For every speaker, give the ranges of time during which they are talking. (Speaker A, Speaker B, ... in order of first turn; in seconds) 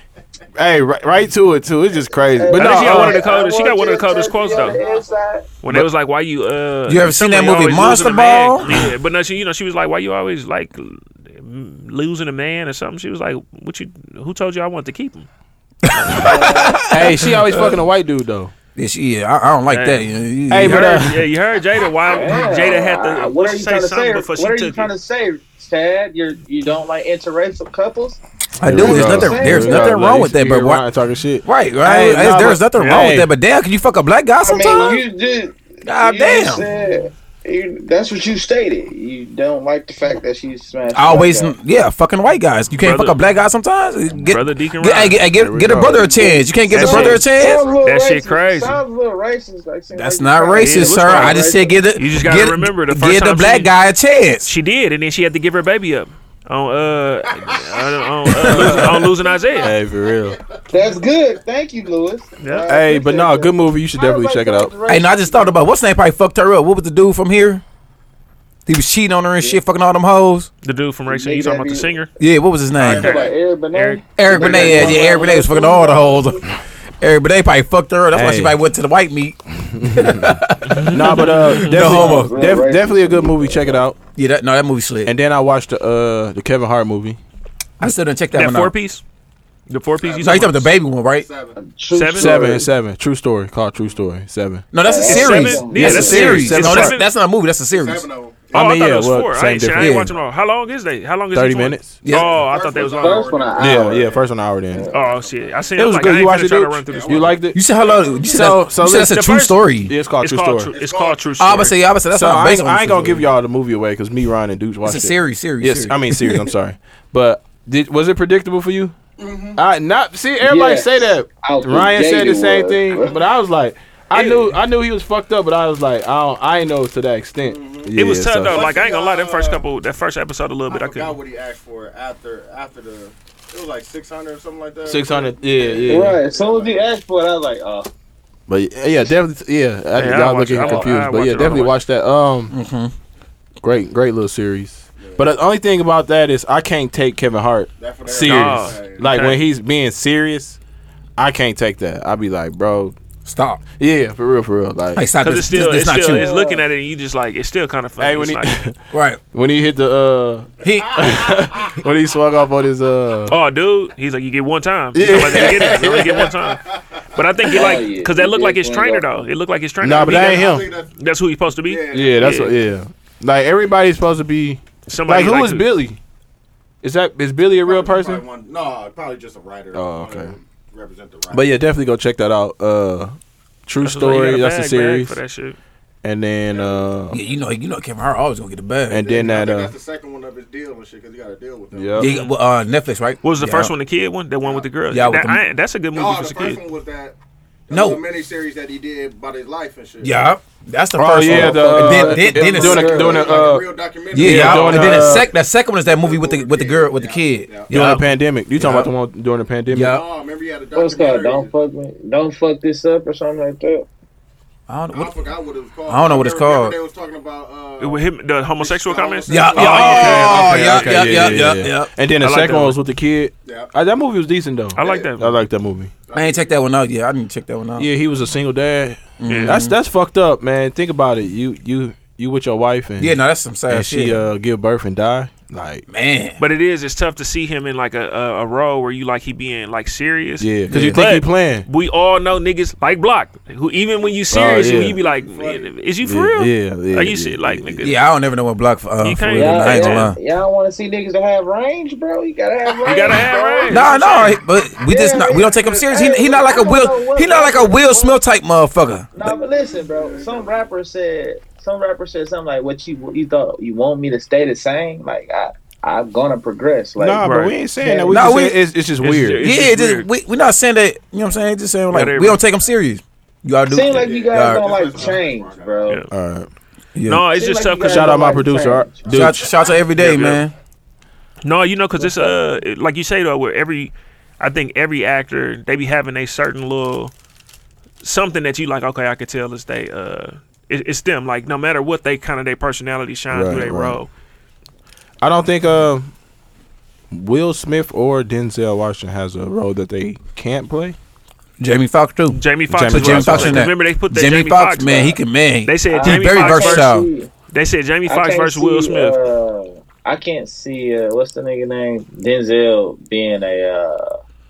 Speaker A: 0.6-3.2, 16.9-18.5, 20.5-21.2, 28.6-33.3, 45.2-46.3, 58.3-59.0, 59.6-60.4, 62.7-64.7, 78.1-78.6, 79.6-84.0, 85.0-87.2, 92.1-94.7, 95.7-97.0, 98.5-100.0, 101.3-102.1, 103.6-104.9, 105.8-107.6, 108.3-109.1, 109.8-110.7, 112.1-118.9, 119.5-128.7, 134.8-136.2, 138.5-142.5, 143.6-150.6, 151.2-152.9, 153.8-155.1, 158.0-158.8, 159.3-163.3, 164.9-166.3, 169.8-170.7, 171.9-176.0, 176.8-178.2, 179.7-180.3, 181.3-183.1, 183.7-185.2, 186.0-187.2, 188.9-189.7, 191.7-192.1, 201.0-205.3, 207.7-210.0, 219.6-225.9, 227.8-233.2, 233.7-235.8, 240.4-241.7, 244.3-245.0, 246.0-247.9, 267.0-269.4, 276.1-276.5, 277.8-279.5, 293.3-294.0, 295.2-296.1, 297.1-300.9, 302.7-303.7
Speaker B: 2.3-5.5, 16.2-16.9, 22.1-29.9, 34.4-41.5, 46.2-51.8, 60.7-65.6, 71.1-72.0, 73.0-76.4, 81.7-83.8, 91.6-92.7, 94.8-96.2, 102.9-104.9, 120.4-123.1, 135.9-137.9, 156.0-156.6, 167.5-169.2, 201.3-203.3, 210.7-213.9, 249.3-253.9, 254.8-258.2, 259.1-267.2, 267.8-268.2, 273.7-276.0, 277.3-279.1, 282.0-282.3, 305.9-307.3, 308.1-314.1
Speaker C: 2.5-4.8, 5.6-15.3, 19.7-24.9, 32.7-33.1, 42.8-43.2, 44.2-45.2, 46.7-47.3, 47.8-48.8, 50.6-53.7, 54.4-59.7, 62.4-62.7, 70.6-72.1, 72.8-74.8, 80.7-81.9, 88.3-89.0, 89.7-90.7, 91.9-92.4, 95.0-97.0, 98.5-103.4, 104.9-107.4, 108.9-111.8, 124.1-124.6, 128.0-131.2, 139.9-141.8, 148.1-149.4, 155.2-158.6, 163.3-166.6, 167.1-172.6, 174.9-175.7, 183.8-185.6, 192.0-192.4, 193.2-196.6, 207.7-208.0, 217.8-220.8, 222.2-222.8, 224.8-225.4, 229.3-229.6, 236.4-247.9, 249.0-250.1, 252.8-254.4, 267.2-267.5, 269.0-270.1, 271.9-272.4, 277.1-278.3, 279.9-280.4, 281.4-287.1, 288.0-294.1, 302.3-306.9, 307.5-309.1
Speaker D: 4.4-5.1, 57.4-57.9, 59.5-60.3, 72.8-73.3, 74.3-75.2, 89.9-91.6, 97.7-98.9, 102.1-106.3, 106.8-108.6, 110.7-111.3, 119.2-119.6, 123.0-123.2, 127.4-129.7, 130.7-136.8, 140.6-140.9, 145.0-145.3, 147.8-149.3, 160.6-161.8, 165.5-167.3, 169.9-170.9, 171.6-172.4, 177.5-181.6, 186.5-186.9, 188.9-192.0, 194.4-194.7, 195.9-197.2, 197.7-200.2, 202.2-205.3, 205.8-207.8, 209.8-211.5, 214.9-221.5, 223.4-223.7, 224.8-225.1, 226.1-226.6, 244.0-245.7, 252.8-254.0, 259.9-260.5, 273.9-275.9
Speaker E: 6.9-8.9, 15.8-17.8, 18.8-21.1, 28.6-30.8, 31.4-35.0, 35.8-36.6, 40.9-47.6, 49.9-54.5, 58.5-58.9, 64.8-67.6, 68.7-70.5, 72.2-73.1, 74.2-76.4, 77.0-82.4, 84.2-85.1, 87.8-88.7, 90.2-91.2, 94.7-98.0, 99.8-100.1, 102.0-102.4, 107.5-109.9, 111.4-113.3, 114.8-116.5, 142.5-142.9, 153.2-153.6, 154.9-156.3, 158.9-159.2, 160.6-161.3, 187.1-189.1, 192.0-193.7, 194.9-195.4, 197.7-198.0, 200.0-203.1, 204.1-208.0, 208.6-208.9, 209.7-210.0, 214.7-215.2, 215.9-216.8, 219.3-221.9, 226.1-227.9, 229.2-229.7, 233.0-234.2, 235.9-236.4, 240.7-241.1, 247.8-250.2, 253.7-259.3, 268.1-268.6, 269.4-274.6, 276.9-277.2, 279.1-280.5, 301.6-307.1